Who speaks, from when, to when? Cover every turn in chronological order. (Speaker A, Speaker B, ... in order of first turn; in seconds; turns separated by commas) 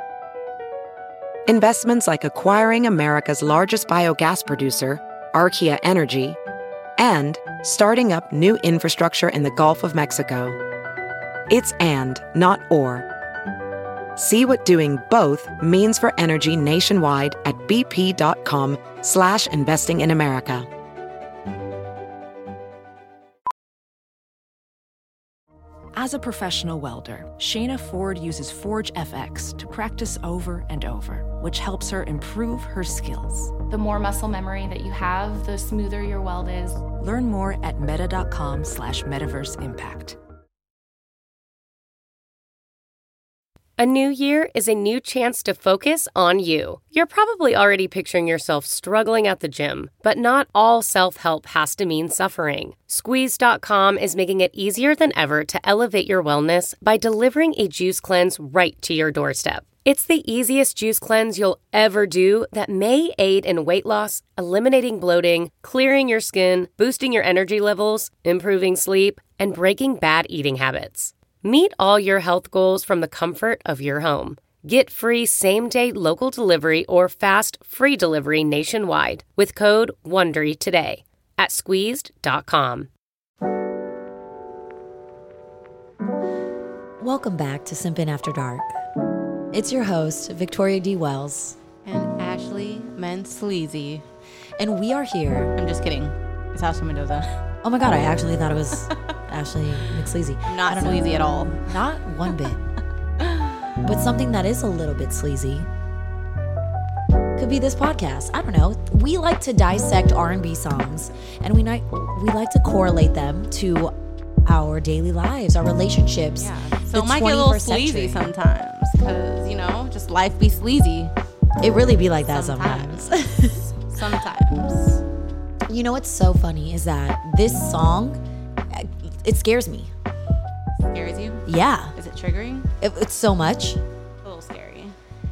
Speaker A: 1.5-6.4, Speaker A: 7.0-10.6, Speaker A: 11.5-13.1, Speaker A: 14.2-20.7, Speaker B: 25.9-33.5, Speaker C: 33.7-36.8, Speaker B: 37.0-40.2, Speaker D: 43.8-82.9, Speaker E: 87.0-88.7, Speaker E: 89.5-91.6, Speaker F: 91.8-94.0, Speaker E: 94.6-95.5, Speaker F: 95.5-97.3, Speaker E: 97.6-101.0, Speaker F: 100.5-101.7, Speaker E: 101.6-102.6, Speaker E: 103.8-105.7, Speaker E: 107.3-113.9, Speaker E: 114.4-118.3, Speaker F: 116.4-121.1, Speaker E: 121.6-123.7, Speaker F: 122.3-123.2, Speaker F: 123.8-125.0, Speaker E: 125.7-129.9, Speaker F: 130.8-132.7, Speaker E: 131.4-131.9, Speaker E: 132.8-133.8, Speaker F: 134.2-134.9